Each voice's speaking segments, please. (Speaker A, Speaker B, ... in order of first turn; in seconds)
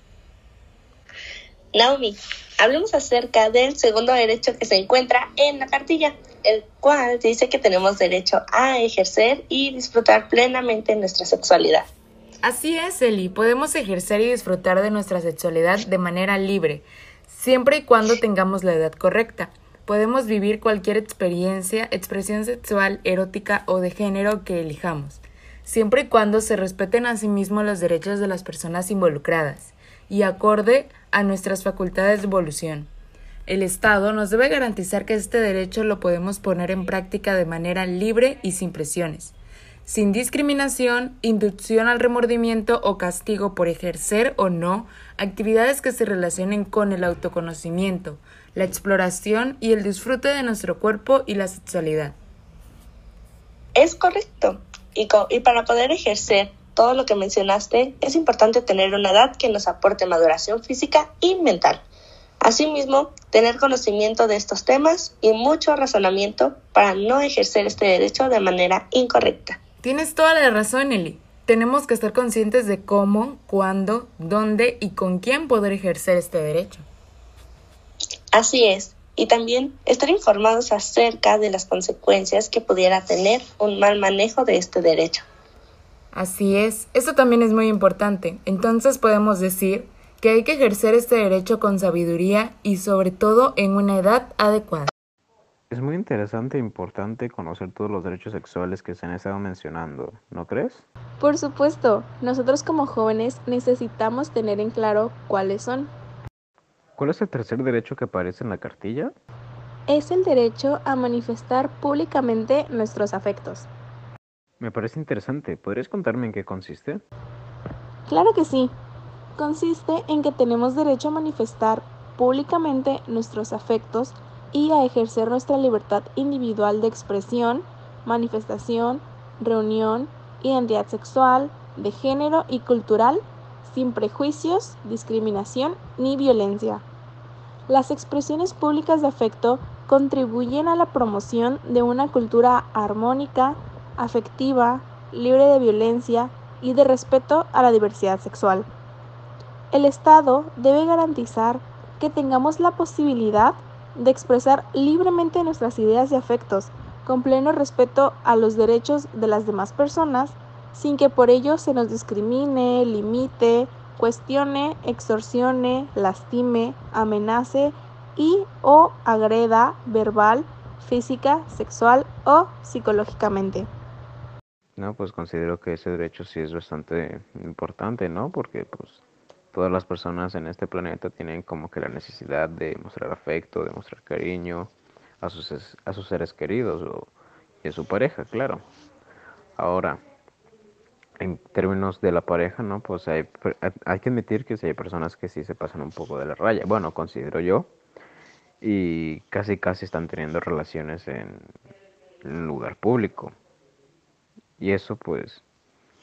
Speaker A: 1.7-11.9, 53.7-61.8, 62.4-69.6, 78.3-85.2
Speaker B: 12.4-32.9, 33.5-39.3, 39.9-52.2, 69.8-76.8, 86.1-94.9
Speaker C: 95.7-100.8, 107.0-109.1, 114.6-117.0, 174.8-179.0, 179.5-187.1, 187.6-188.6, 189.6-190.0, 191.2-197.7, 198.6-201.5, 202.2-203.3, 204.6-205.4
Speaker D: 101.2-105.9, 109.9-113.7, 118.1-118.7, 119.4-136.8, 137.7-148.7, 149.7-173.7